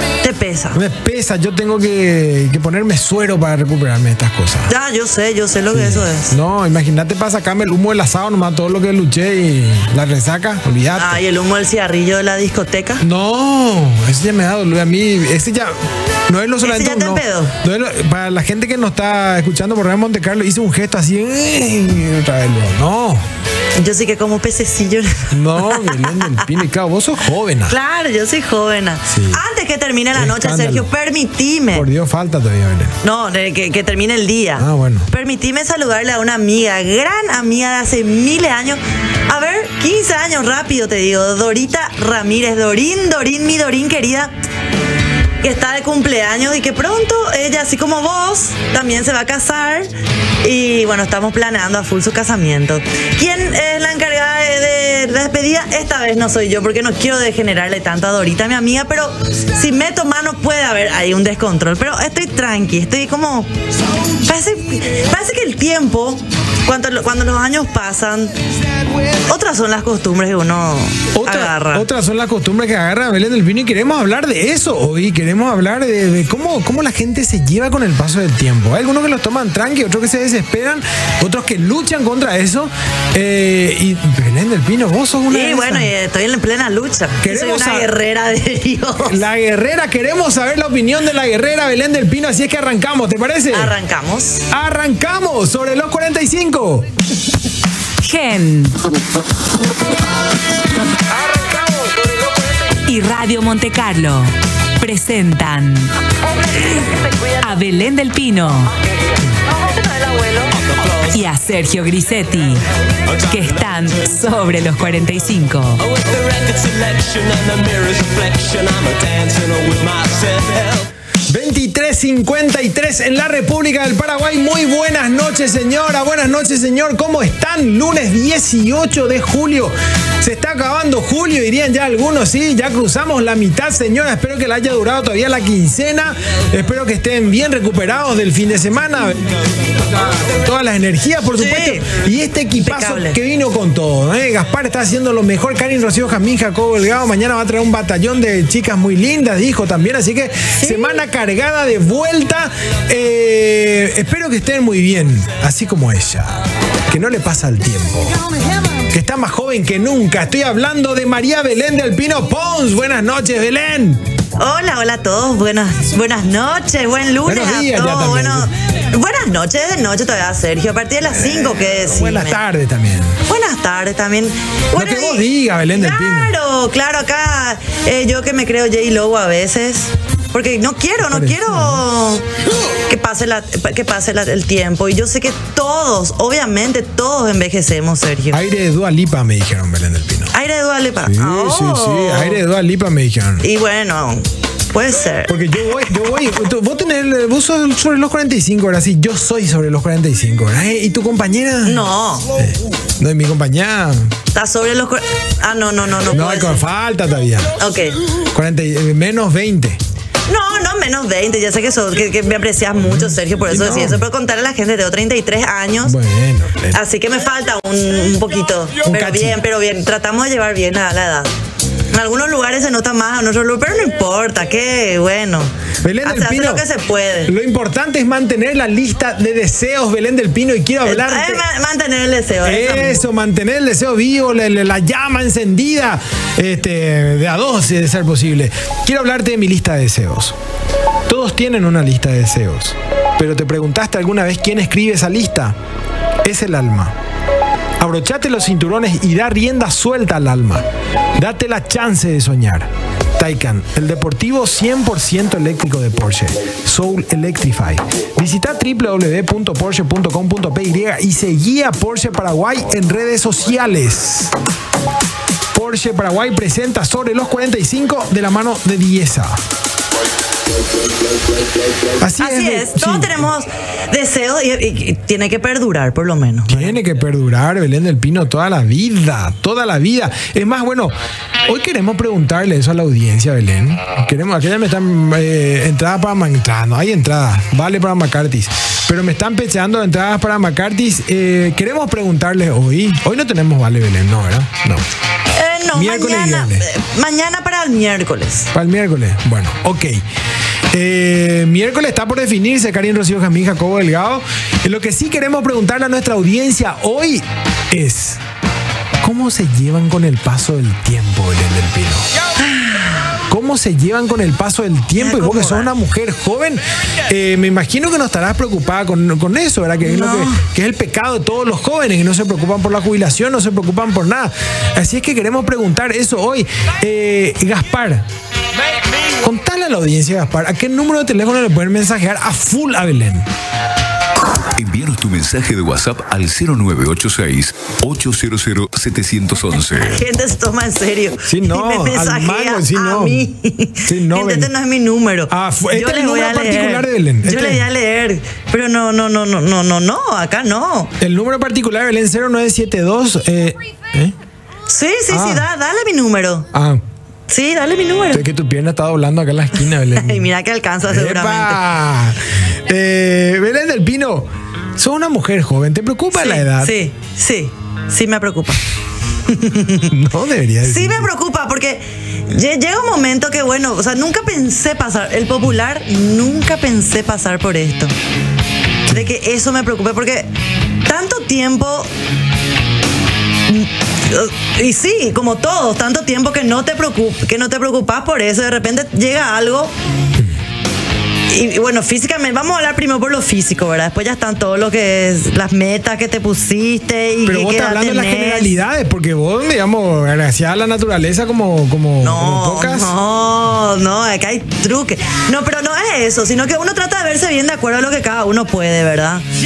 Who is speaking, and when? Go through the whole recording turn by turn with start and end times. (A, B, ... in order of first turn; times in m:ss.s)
0:00.2-0:00.8 A
0:00.7-0:04.7 B
0:04.7-0:06.3 A
0:05.7-0:11.2 B
0:10.9-0:13.0 A
0:13.0-0:15.8 B
0:16.3-0:23.2 B
0:16.6-0:17.5 A
0:23.8-0:26.5 A
0:25.3-0:27.8 B
0:27.7-0:31.9 A
0:29.1-0:29.4 B
0:30.1-0:30.9 B
0:31.7-0:33.0 B
0:33.0-0:44.3 A
0:34.6-0:35.1 B
0:45.4-1:03.5 A
1:04.2-1:08.3 A
1:09.3-1:11.9 A
1:11.1-1:25.9 B
1:25.3-1:29.2 A
1:27.2-1:27.9 B
1:29.0-1:33.7 B
1:33.5-1:34.5 A
1:34.5-1:36.9 B
1:38.0-1:38.9 C
1:41.2-1:42.0 B
1:42.8-1:45.9 C
1:47.4-1:48.7 C
1:49.5-1:50.5 A
1:51.1-1:52.6 C
1:53.3-1:55.8 C
1:55.8-2:00.8 D
2:01.3-2:19.3 B
2:20.1-2:38.2 B
2:21.4-2:21.9 A
2:22.6-2:23.2 A
2:30.6-2:31.0 A
2:38.9-2:44.0 B
2:44.4-2:52.4 A
2:47.2-2:48.5 B
2:51.6-2:53.2 B
2:53.2-3:02.2 A
2:54.7-2:56.4 B
3:01.0-3:01.8 B
3:02.9-3:08.4 A
3:08.3-3:10.3 B
3:10.3-3:12.4 A
3:11.0-3:13.5 B
3:13.4-3:15.4 A
3:15.3-3:21.8 B
3:21.6-3:22.3 A
3:22.4-3:24.1 B
3:24.3-3:26.6 A
3:26.1-3:27.6 B
3:27.6-3:28.0 A
3:28.3-3:29.8 B
3:30.3-3:36.0 A
3:32.8-3:34.0 B
3:35.8-3:36.8 B
3:36.7-3:41.3 A
3:38.8-3:39.4 B
3:41.9-3:47.3 A
3:45.8-3:46.6 B
3:47.2-3:51.4 B
3:50.8-3:53.1 A
3:52.4-4:00.3 B
4:01.1-4:05.5 B
4:06.2-4:07.0 B
4:07.8-4:10.6 B
4:11.2-4:24.3 B
4:25.5-4:29.4 B
4:32.0-4:33.3 B
4:32.2-4:36.8 A
4:36.5-4:40.9 B
4:41.5-4:54.8 B
4:55.3-4:58.5 A
4:55.7-4:56.6 B
4:58.5-5:00.0 B
5:00.7-5:08.2 B
5:09.0-5:12.1 B
5:12.4-5:13.0 A
5:13.3-5:28.0 B
5:14.9-5:15.7 A
5:19.8-5:20.4 A
5:29.2-5:33.3 B
5:34.6-5:40.0 E
5:39.8-5:50.9 A
5:41.3-5:43.3 B
5:43.8-5:44.5 B
5:45.3-5:47.6 B
5:51.0-5:54.1 B
5:54.7-5:56.5 A
5:55.1-5:55.5 B
5:56.5-5:56.8 B
5:57.3-5:58.2 A
5:58.1-6:00.3 B
5:59.8-6:01.6 A
6:00.8-6:06.8 B
6:06.1-6:08.6 A
6:09.2-6:09.9 A
6:09.9-6:11.1 B
6:10.6-6:17.9 A
6:18.9-6:20.3 A
6:20.8-6:21.9 A
6:23.5-6:29.7 A
6:31.3-6:38.6 A
6:37.2-6:42.9 B
6:42.0-6:49.2 A